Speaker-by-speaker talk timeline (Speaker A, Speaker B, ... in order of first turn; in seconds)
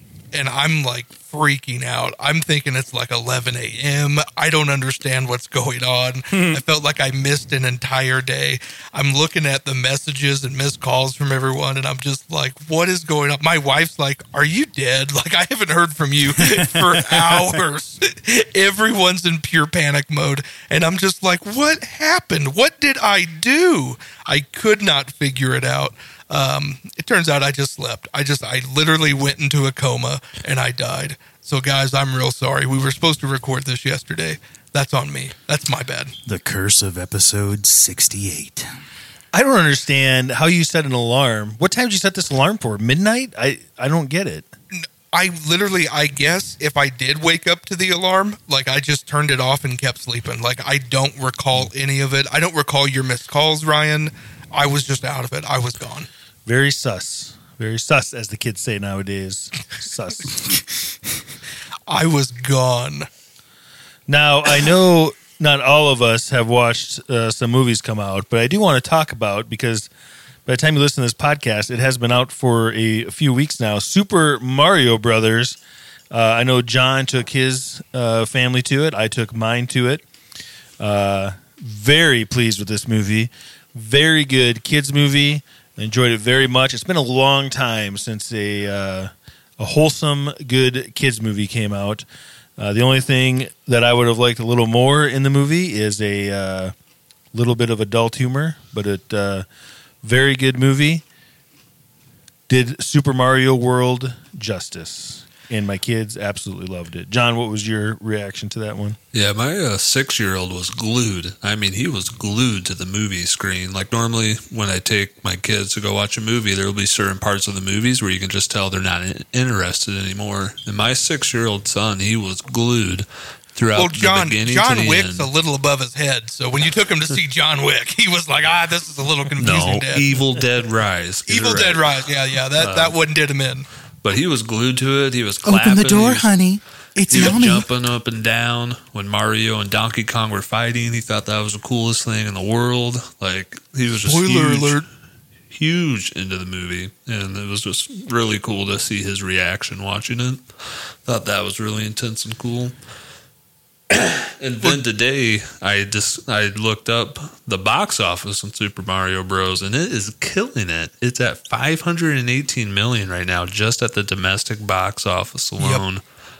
Speaker A: 0.3-36.1, 44.7-56.1, 61.9-63.1, 123.7-130.1, 131.3-133.7, 144.0-144.8, 165.6-165.8
Speaker B: 6.3-6.6, 16.4-17.4, 36.2-38.7, 135.4-137.7
Speaker C: 39.3-44.5, 56.4-60.6, 64.1-69.9, 70.5-75.6, 76.1-80.0, 80.8-92.0, 92.6-96.7, 97.3-99.4, 100.0-101.0, 102.5-109.0
Speaker D: 109.1-125.3, 129.4-131.9, 132.6-132.9, 134.0-136.2, 137.1-144.8, 145.5-150.5, 151.0-152.7, 153.9-166.0